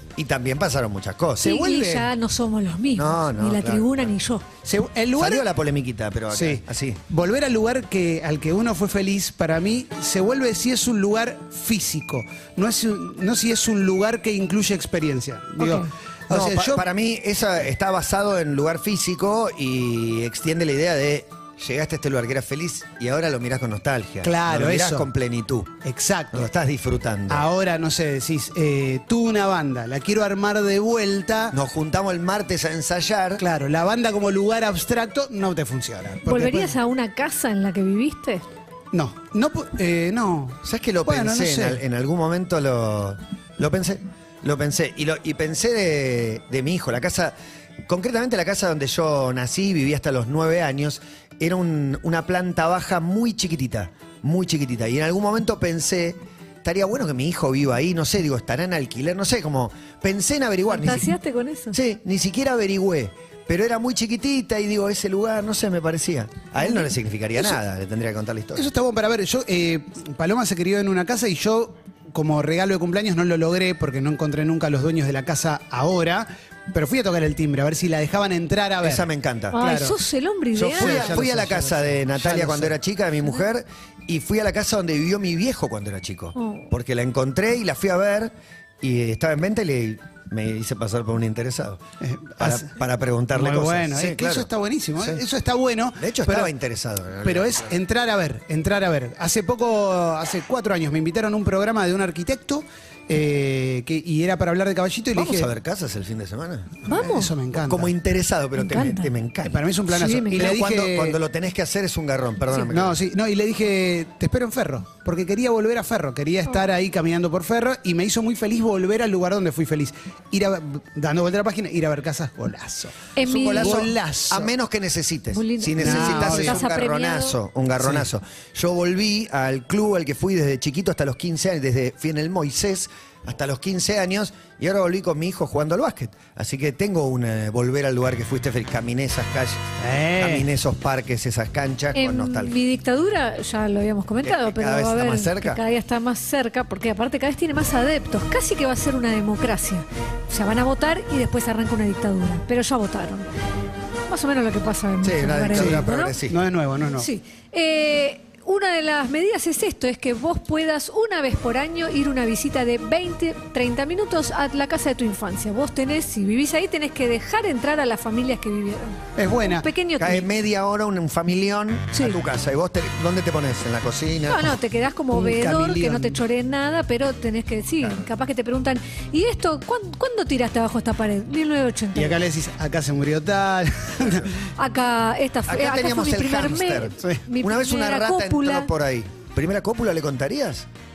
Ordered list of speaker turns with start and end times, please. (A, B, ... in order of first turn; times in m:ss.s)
0:00.2-0:02.1 A
0:01.4-0:04.6 B
0:03.0-0:04.1 A
0:04.6-0:05.5 C
0:05.2-0:07.0 A
0:06.3-0:16.8 C
0:15.6-0:15.9 B
0:16.3-0:25.8 A
0:24.2-0:25.1 C
0:25.8-0:26.5 C
0:26.3-0:27.5 A
0:27.3-0:31.6 C
0:31.5-0:33.4 A
0:33.4-0:36.8 C
0:36.3-0:38.4 B
0:38.9-0:41.8 C
0:40.6-0:47.4 A
0:47.9-1:01.1 A
1:00.7-1:01.8 B
1:01.7-1:08.7 A
1:08.6-1:19.1 C
1:18.8-1:19.6 A
1:19.5-1:21.2 B
1:19.6-1:20.0 C
1:20.5-1:31.8 A
1:20.6-1:22.7 C
1:26.4-1:26.7 B
1:32.0-1:32.7 C
1:32.4-1:35.2 A
1:33.3-1:36.5 C
1:36.0-1:37.7 A
1:37.2-1:45.5 C
1:45.2-1:47.0 A
1:46.9-1:47.3 B
1:46.9-1:47.9 C
1:47.6-1:49.6 A
1:48.6-1:49.1 B
1:49.4-1:51.2 C
1:49.9-1:50.6 B
1:50.3-1:53.0 A
1:52.7-2:04.5 C
2:03.2-2:03.8 B
2:03.2-2:22.5 A
2:05.3-2:07.4 B
2:05.8-2:06.7 C
2:19.8-2:20.5 C
2:22.0-2:33.3 B
2:24.2-2:25.6 A
2:34.1-2:36.2 B
2:35.0-2:36.4 A
2:35.5-2:37.1 C
2:37.0-2:50.3 B
2:49.2-2:49.7 C
2:50.0-2:54.6 A
2:51.9-2:52.2 B
2:54.3-3:02.2 B
2:55.1-2:56.2 C
2:57.8-2:58.1 A
3:01.9-3:04.4 C
3:04.6-3:08.7 B
3:05.5-3:10.7 A
3:07.0-3:07.3 C